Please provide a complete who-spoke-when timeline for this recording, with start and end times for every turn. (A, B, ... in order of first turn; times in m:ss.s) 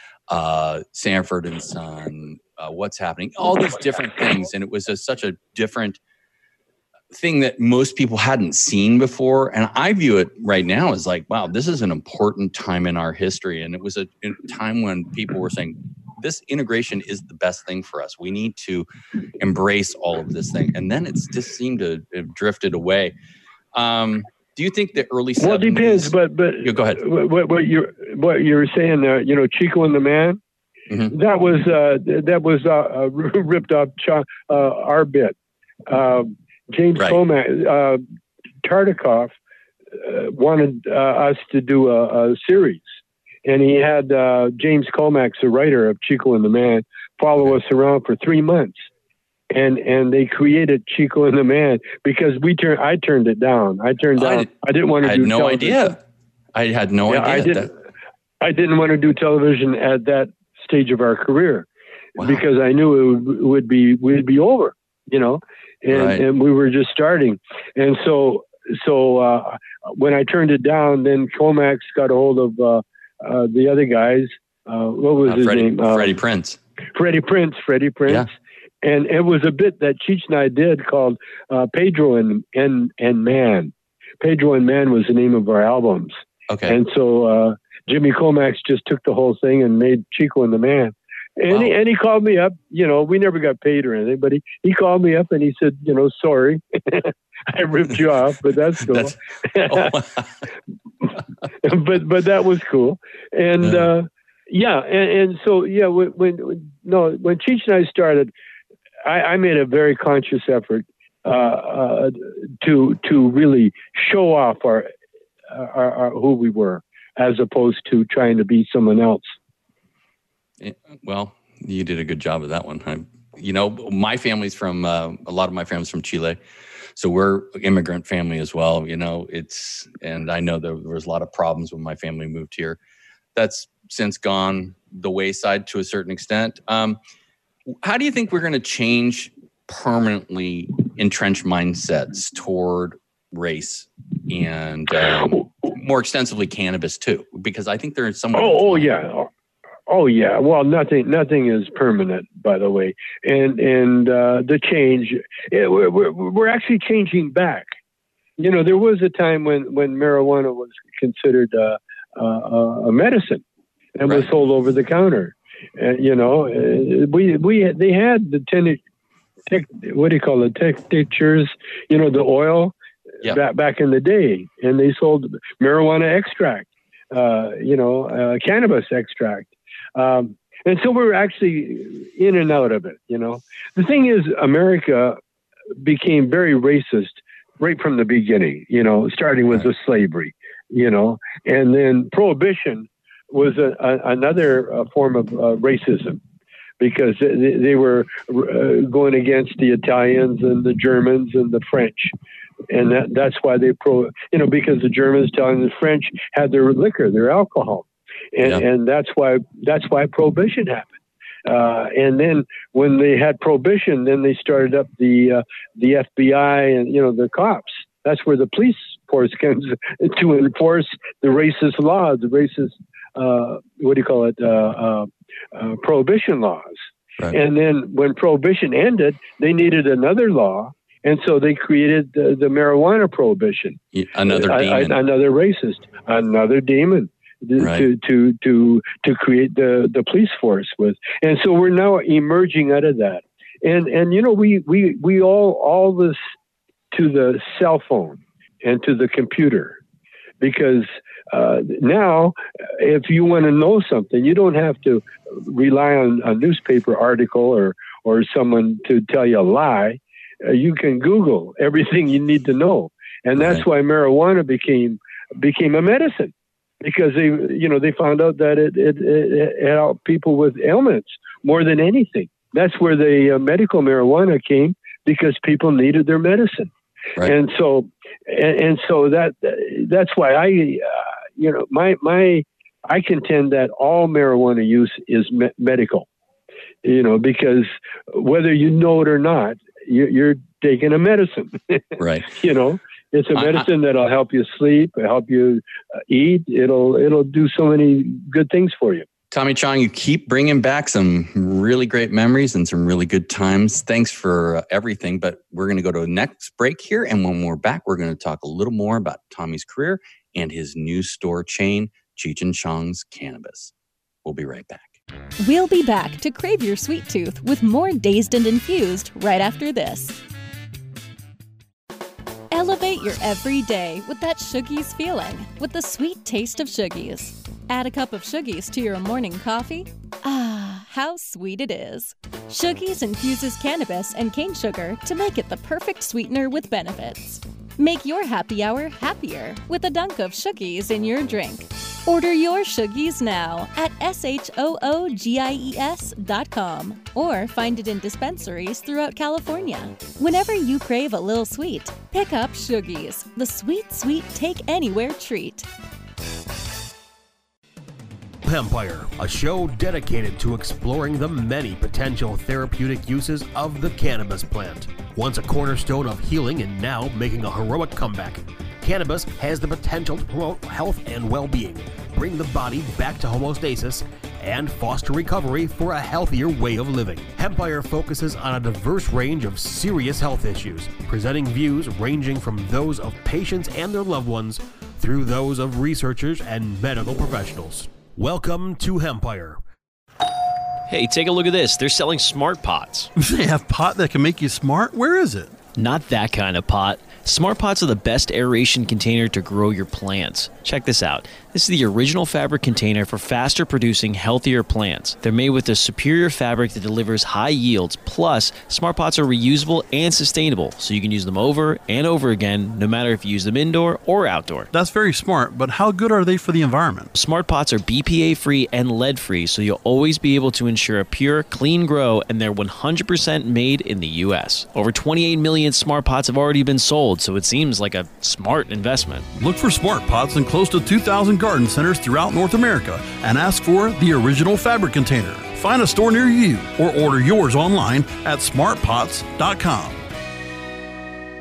0:00.3-0:06.0 A
0:07.1-0:18.9 A
0:19.4-0:23.1 A
0:23.7-0:27.0 A
0:25.4-0:30.4 B
0:31.1-0:35.4 B
0:35.9-0:38.0 B
0:38.6-0:39.3 B
0:40.0-0:42.8 B
0:43.4-0:48.8 B
0:49.5-0:56.0 B
0:54.2-0:54.5 A
0:55.0-0:56.0 A
0:56.5-0:57.7 A
0:57.1-0:57.7 B
0:58.4-1:01.7 B
1:02.2-1:16.2 B
1:05.9-1:06.2 A
1:15.2-1:16.6 A
1:16.9-1:18.3 B
1:18.8-1:26.1 B
1:26.5-1:26.8 A
1:26.7-1:40.0 B
1:31.5-1:31.7 A
1:39.7-1:40.2 A
1:41.6-1:48.3 B
1:43.6-1:43.9 A
1:49.0-1:54.9 B
1:55.5-1:59.3 B
2:00.6-2:06.4 A
2:06.9-2:12.8 A
2:13.3-2:17.0 A
2:17.8-2:29.0 A
2:28.3-2:29.3 B
2:29.9-2:37.7 B
2:38.4-2:43.4 B
2:43.9-2:48.8 B
2:49.5-3:05.2 B
3:05.8-3:16.2 B
3:16.8-3:22.1 B
3:22.7-3:46.8 B
3:47.3-4:06.2 B
3:53.9-3:55.0 A
3:57.6-3:57.8 A
4:06.9-4:09.8 B
4:10.4-4:46.1 B
4:23.4-4:23.6 A
4:46.8-4:59.0 B
4:52.0-4:52.3 A
4:53.3-4:53.7 A
4:59.3-5:13.7 A
5:14.2-5:14.9 A
5:15.4-5:20.2 C
5:22.5-5:55.7 C
5:58.4-6:29.6 D
6:30.9-6:33.1 E
6:33.2-6:35.6 F
6:35.7-6:54.7 E
6:54.7-6:57.1 F
6:57.1-7:09.3 E
7:09.3-7:20.0 F